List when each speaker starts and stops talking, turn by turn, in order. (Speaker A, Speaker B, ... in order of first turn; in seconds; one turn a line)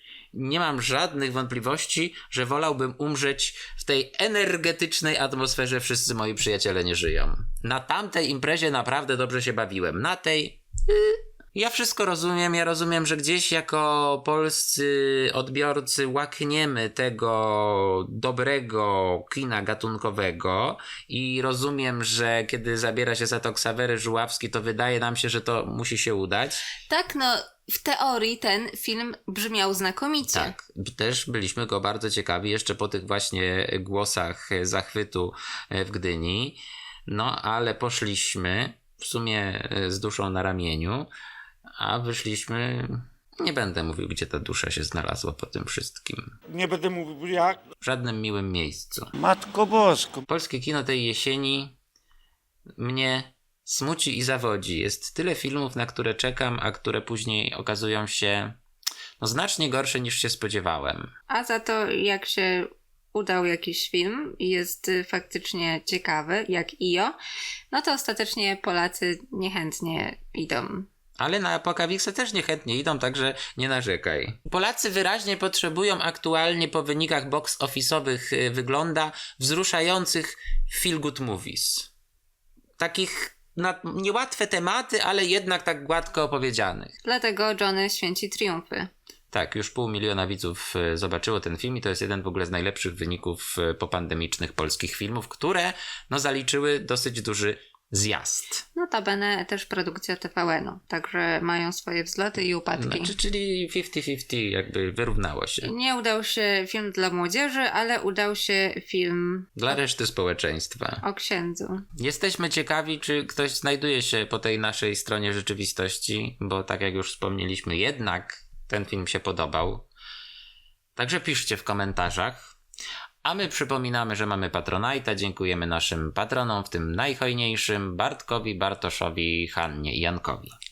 Speaker A: 0.3-26.6
Speaker B: 26.9-30.5
Speaker A: 30.3-41.1
Speaker A: 41.8-46.3
Speaker C: 46.5-47.6
Speaker A: 47.8-49.1
Speaker C: 49.2-50.2
Speaker A: 50.3-51.8
Speaker A: 52.8-58.6
Speaker A: 59.2-61.1
Speaker B: 61.3-67.1
Speaker B: 67.7-70.9
Speaker A: 71.2-81.9
Speaker A: 82.8-86.9
Speaker B: 87.0-88.9
Speaker A: 89.3-98.7
Speaker B: 98.7-103.1
Speaker A: 102.7-105.7
Speaker B: 105.6-109.6
Speaker A: 109.6-111.0
Speaker B: 111.0-111.8
Speaker A: 112.0-119.9
Speaker A: 121.0-122.5
Speaker A: 123.2-130.5